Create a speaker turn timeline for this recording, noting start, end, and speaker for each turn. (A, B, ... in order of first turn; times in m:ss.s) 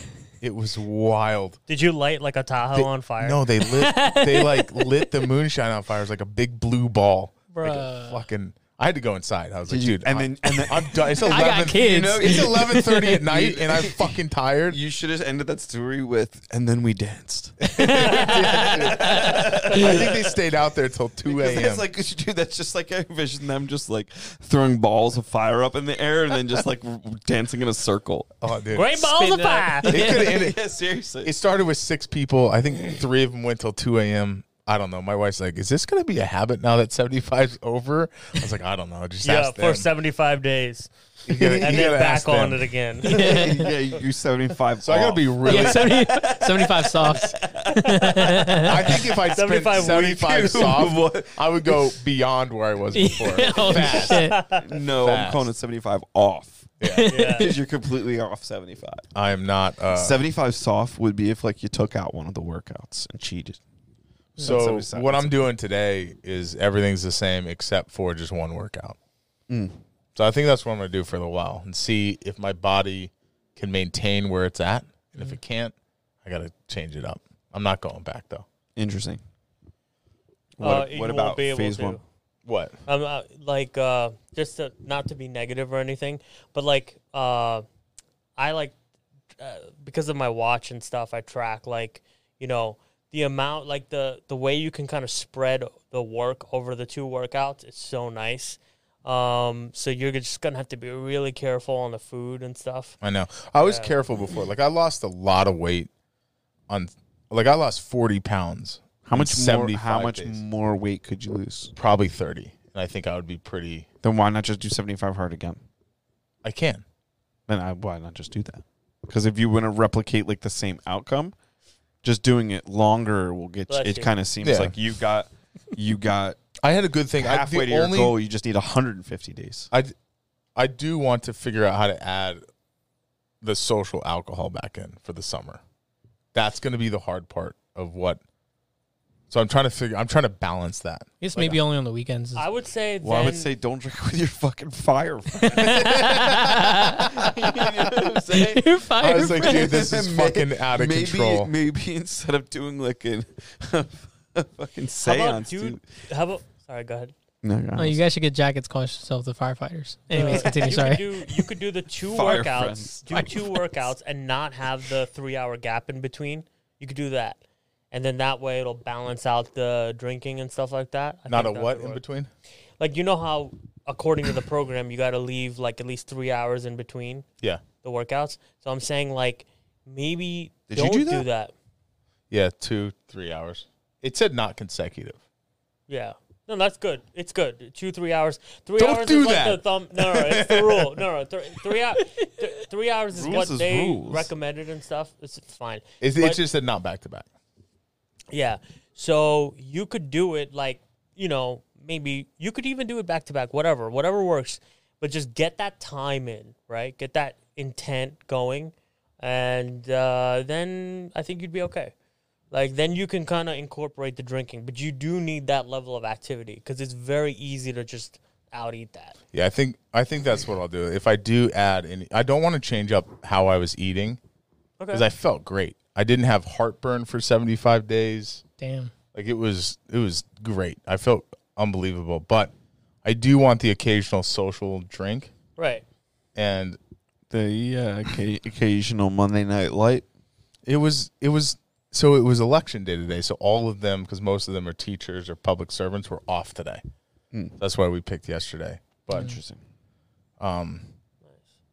0:00.4-0:01.6 A
0:01.7-0:03.4 B
0:02.7-0:14.8 A
0:03.7-0:05.1 C
0:07.5-0:08.2 C
0:09.7-0:20.3 D
0:11.1-0:13.2 C
0:17.6-0:21.8 A
0:17.7-0:20.0 C
0:21.2-0:28.3 D
0:28.4-0:29.0 A
0:28.7-0:30.0 B
0:28.9-0:30.2 C
0:29.9-0:30.6 A
0:29.9-0:31.3 D
0:31.2-0:39.9 A
0:39.2-0:40.9 B
0:41.3-0:42.7 A
0:41.4-0:41.9 D
0:41.5-0:43.5 B
0:43.0-0:43.7 C
0:43.0-0:49.2 D
0:44.8-0:46.1 A
0:45.4-0:49.0 C
0:48.6-0:54.4 A
0:49.3-0:50.5 B
0:49.7-0:52.0 D
0:52.9-0:54.4 C
0:53.5-0:56.7 D
0:54.0-0:54.6 B
0:55.0-0:55.5 A
0:56.8-0:57.1 A
0:56.8-0:57.6 C
0:57.1-0:57.5 B
0:57.3-0:59.1 D
0:59.1-1:00.2 A
0:59.9-1:03.6 D
1:04.4-1:05.5 D
1:04.4-1:09.0 A
1:09.5-1:09.8 D
1:10.2-1:18.4 A
1:18.8-1:19.2 D
1:20.6-1:22.0 D
1:20.6-1:22.0 B
1:22.4-1:22.8 A
1:22.9-1:27.6 B
1:28.4-1:28.8 B
1:29.4-1:43.0 B
1:43.0-1:45.9 A
1:43.6-1:44.0 B
1:46.7-1:50.4 A
1:49.1-1:51.7 D
1:51.8-1:53.9 A
1:54.0-1:55.6 D
1:56.4-1:56.8 A
1:57.5-2:01.4 D
2:02.0-2:06.4 D
2:03.7-2:04.1 B
2:04.4-2:04.8 A
2:06.6-2:08.2 A
2:07.2-2:09.7 D
2:10.6-2:12.4 A
2:13.4-2:15.6 A
2:16.3-2:18.2 A
2:19.3-2:21.6 A
2:21.2-2:22.5 C
2:22.4-2:23.5 B
2:23.0-2:26.4 D
2:25.5-2:27.3 C
2:27.0-2:35.8 D
2:28.3-2:29.8 C
2:29.0-2:31.5 A
2:35.0-2:37.1 B
2:37.4-2:38.0 D
2:37.8-2:41.4 C
2:40.1-2:47.4 B
2:40.2-2:40.9 D
2:42.0-2:43.3 D
2:47.9-2:52.0 B
2:51.3-2:52.3 A
2:52.8-2:57.2 B
2:57.8-3:01.5 B
3:00.7-3:01.3 D
3:02.3-3:05.2 A
3:05.9-3:16.4 B
3:08.8-3:10.9 A
3:13.1-3:14.3 D
3:16.0-3:17.3 A
3:18.3-3:31.9 B
3:32.5-3:39.2 B
3:39.3-3:44.2 A
3:44.8-3:45.1 B
3:44.9-3:48.4 A
3:48.6-3:48.9 C
3:49.1-3:52.5 A
3:53.0-3:55.3 A
3:55.6-3:55.8 B
3:56.4-3:56.8 A
3:57.3-4:00.1 D
4:00.7-4:06.8 A
4:07.3-4:07.6 D
4:07.6-4:09.4 A
4:09.1-4:09.6 D
4:10.4-4:10.9 A